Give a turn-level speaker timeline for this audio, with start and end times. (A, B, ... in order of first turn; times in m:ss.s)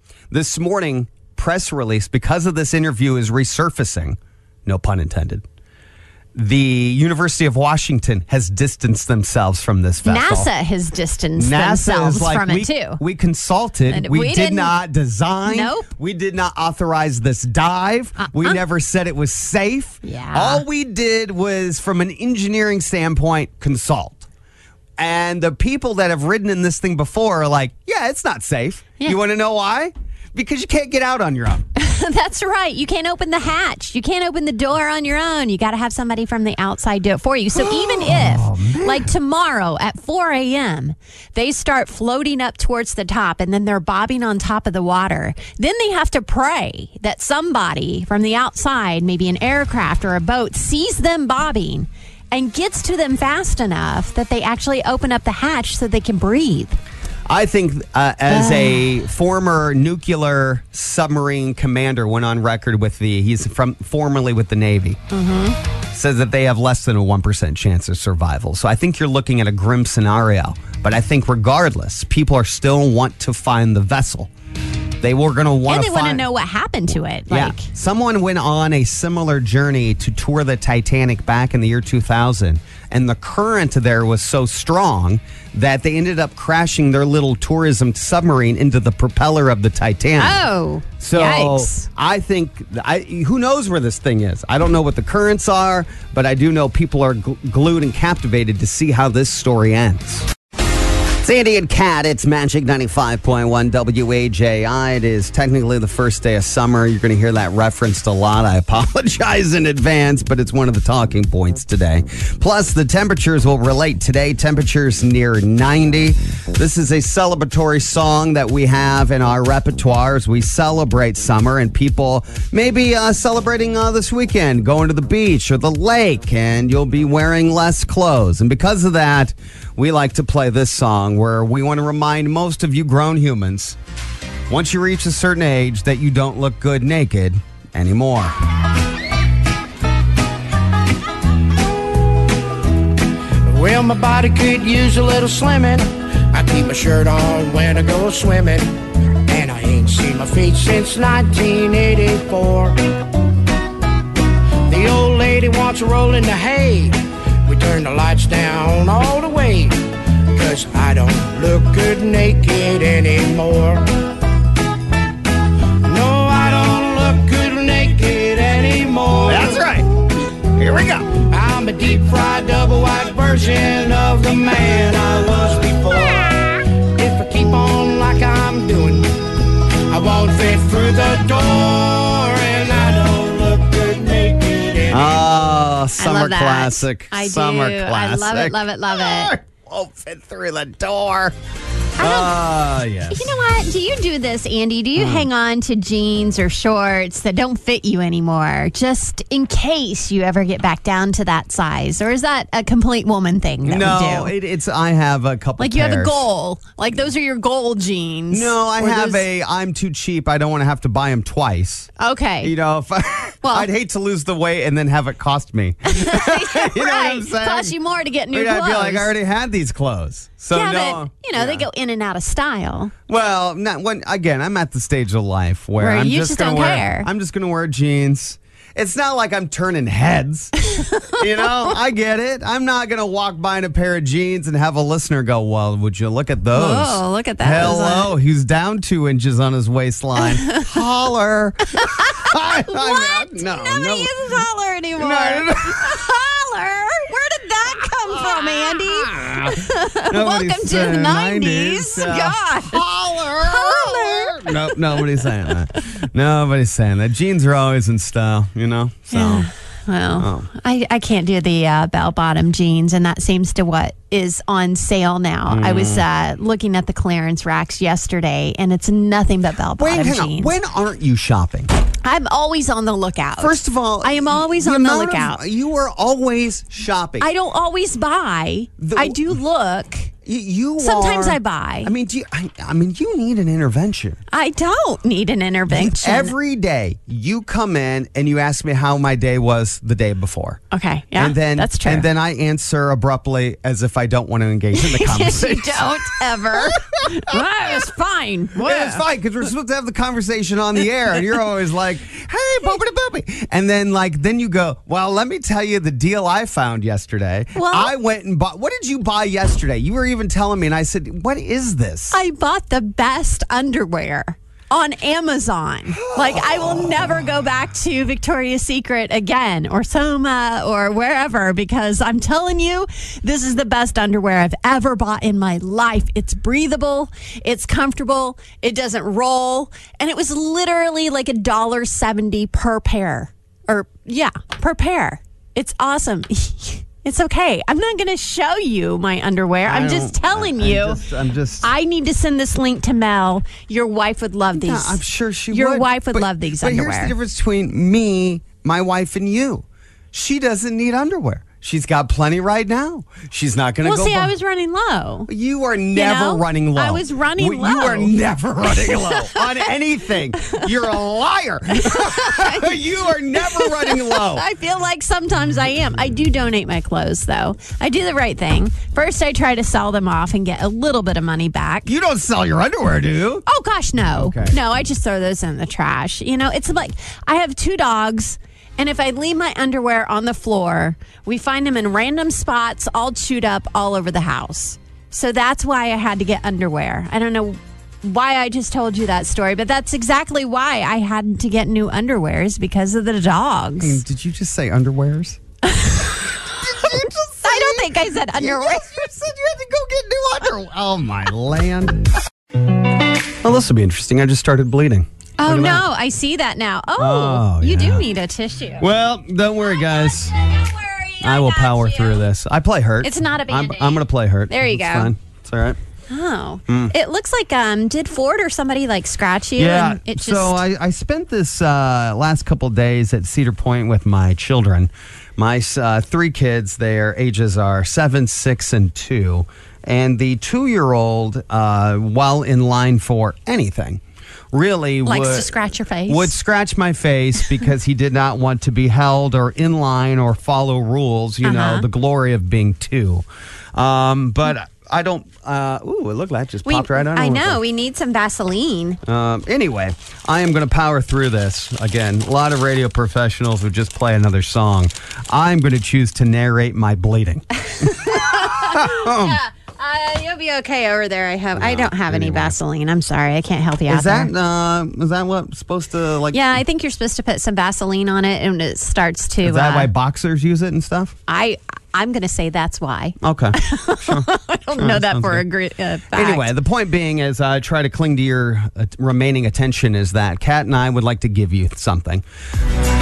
0:00.3-0:05.4 A
0:06.4-0:10.5 A
0:10.0-0:13.0 B
0:11.4-0:24.3 A
0:13.9-0:14.8 B
0:15.4-0:15.9 B
0:18.2-0:18.6 B
0:20.0-0:20.6 B
0:25.0-0:31.6 A
0:31.8-0:56.8 B
0:37.5-0:39.1 A
0:57.3-1:05.0 A
0:58.3-0:58.8 B
1:05.1-1:05.6 B
1:05.9-1:14.3 A
1:15.0-1:16.2 A
1:15.7-1:17.6 B
1:17.3-1:30.4 A
1:30.2-1:31.9 B
1:31.0-1:40.3 A
1:41.2-2:13.8 A
2:14.5-2:18.3 A
2:23.5-2:28.7 C
2:29.3-2:32.8 C
2:34.7-2:43.8 C
2:45.8-2:49.7 C
2:49.3-2:49.9 A
2:50.5-2:51.2 A
2:51.3-2:59.2 C
2:59.9-3:05.3 C
3:04.9-3:11.4 A
3:06.0-3:09.3 B
3:12.0-3:12.4 B
3:12.0-3:13.3 A
3:13.1-3:24.4 B
3:15.0-3:15.3 A
3:23.6-3:26.2 A
3:25.6-3:29.2 B
3:28.3-3:31.9 A
3:32.0-3:32.6 B
3:32.4-3:37.8 A
3:33.4-3:33.7 B
3:35.9-3:39.1 B
3:38.3-3:41.7 A
3:40.5-3:42.9 B
3:43.1-4:04.4 A
3:45.8-3:47.1 B
3:56.5-3:58.2 B
4:01.8-4:12.8 B
4:05.0-4:06.0 A
4:08.2-4:09.5 A
4:10.0-4:19.5 A
4:13.4-4:15.0 B
4:19.1-4:30.6 B
4:20.2-4:20.5 A
4:25.5-4:26.0 A
4:29.8-4:31.7 A
4:32.0-4:35.4 B
4:33.4-4:37.3 A
4:37.2-4:40.1 B
4:38.8-4:39.2 A
4:40.3-4:44.2 A
4:40.8-4:41.9 B
4:44.3-4:46.3 B
4:45.7-4:50.6 A
4:50.7-4:52.1 B
4:51.2-4:57.7 A
4:54.7-4:59.0 B
4:58.6-5:12.2 A
5:07.6-5:07.9 B
5:12.1-5:41.0 B
5:16.1-5:16.9 A
5:39.7-5:41.7 A
5:41.6-5:45.0 B
5:44.5-5:54.3 A
5:45.5-5:47.2 B
5:53.8-5:55.3 B
5:55.3-6:04.4 A
5:55.9-5:59.7 B
6:01.7-6:02.8 B
6:03.4-6:11.9 B
6:11.9-6:13.4 A
6:13.5-6:34.0 B
6:14.1-6:14.6 A
6:33.8-6:35.4 A
6:35.8-6:36.1 B
6:36.3-6:42.0 A
6:37.4-6:38.9 B
6:43.4-6:45.8 A
6:45.4-6:48.9 B
6:47.0-6:48.1 A
6:48.8-6:50.3 A
6:50.0-6:52.2 B
6:51.2-6:55.8 A
6:53.0-6:55.1 B
6:56.1-7:00.6 B
6:56.7-6:56.9 A
6:59.6-7:14.0 A
7:14.5-7:15.5 A
7:15.1-7:16.4 B
7:16.1-7:27.6 A
7:21.4-7:21.9 B
7:26.7-7:29.0 B
7:29.1-7:39.4 A
7:37.8-7:44.3 B
7:41.5-7:42.6 A
7:43.9-7:46.6 A
7:46.3-7:49.9 B
7:49.4-7:51.2 A
7:51.3-7:56.5 B
7:53.2-7:55.5 A
7:56.1-8:02.2 A